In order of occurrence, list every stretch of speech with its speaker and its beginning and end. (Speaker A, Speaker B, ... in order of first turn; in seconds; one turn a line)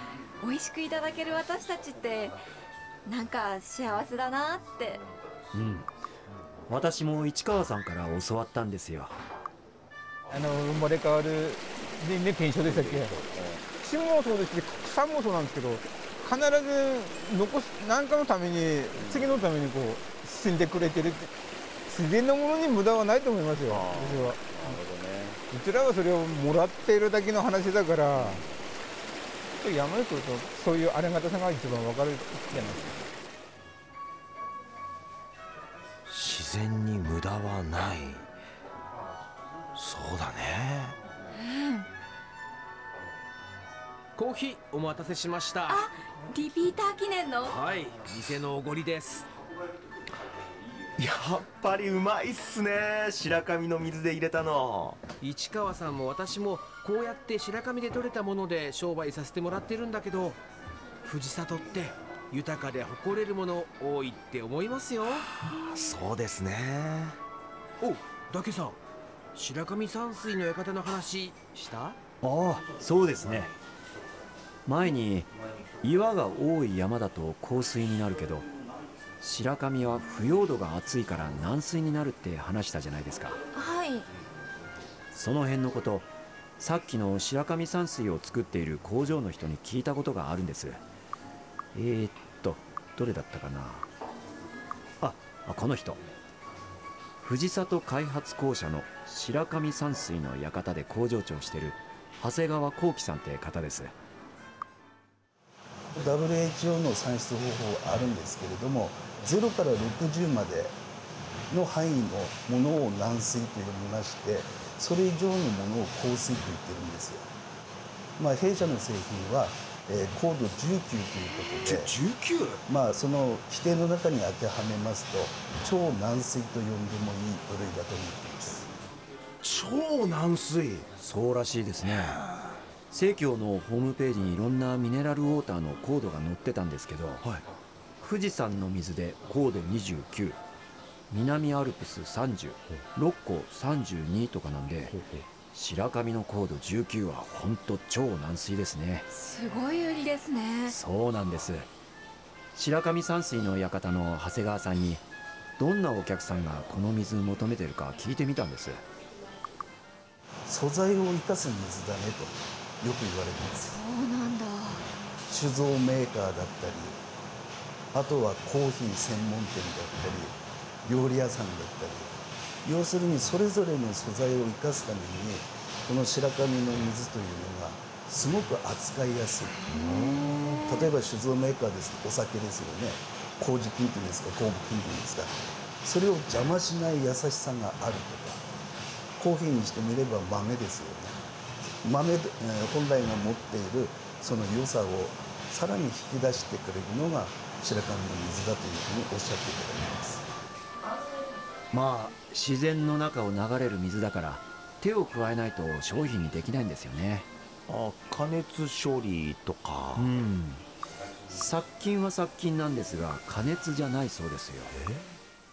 Speaker A: 0.4-2.4
Speaker A: 3.0-5.0
Speaker B: 5.5-5.9
Speaker B: 6.7-9.2
Speaker C: 10.3-13.2
Speaker D: 12.6-13.6
Speaker C: 13.7-21.3
Speaker D: 19.0-19.4
Speaker C: 21.9-24.8
Speaker D: 23.7-25.4
Speaker C: 25.5-28.4
Speaker D: 28.1-28.4
Speaker C: 29.6-33.0
Speaker E: 36.1-38.2
Speaker E: 39.8-41.0
Speaker A: 41.3-41.9
Speaker F: 44.1-45.8
Speaker A: 45.7-47.6
Speaker F: 47.4-49.3
Speaker E: 51.0-55.0
Speaker F: 55.2-60.4
Speaker F: 61.0-65.2
Speaker E: 65.4-67.2
Speaker F: 67.8-68.8
Speaker F: 69.3-72.0
Speaker B: 72.2-73.5
Speaker B: 74.7-75.3
Speaker B: 75.8-78.5
Speaker B: 79.2-83.4
Speaker A: 83.5-84.1
Speaker B: 85.1-90.8
Speaker B: 91.7-93.9
Speaker B: 95.0-96.0
Speaker B: 97.2-103.9
Speaker G: 105.9-110.8
Speaker G: 111.5-117.3
Speaker G: 118.2-121.9
Speaker E: 121.6-122.6
Speaker G: 122.7-128.7
Speaker E: 129.4-130.9
Speaker B: 131.0-132.2
Speaker E: 131.9-132.5
Speaker B: 132.9-137.2
Speaker B: 138.0-140.4
Speaker B: 141.1-144.9
Speaker E: 144.9-145.2
Speaker B: 145.5-149.1
Speaker A: 149.1-150.8
Speaker B: 150.7-151.7
Speaker B: 152.5-155.0
Speaker B: 155.6-158.8
Speaker G: 160.5-163.7
Speaker A: 163.7-164.9
Speaker G: 165.3-167.0
Speaker G: 167.9-172.1
Speaker G: 172.6-179.5
Speaker A: 179.6-180.9
Speaker E: 179.7-180.7
Speaker G: 180.7-188.4
Speaker G: 189.2-191.2
Speaker G: 191.8-200.2
Speaker B: 201.7-207.3
Speaker E: 207.7-210.1
Speaker B: 209.9-210.6
Speaker B: 211.3-214.7
Speaker E: 214.7-215.1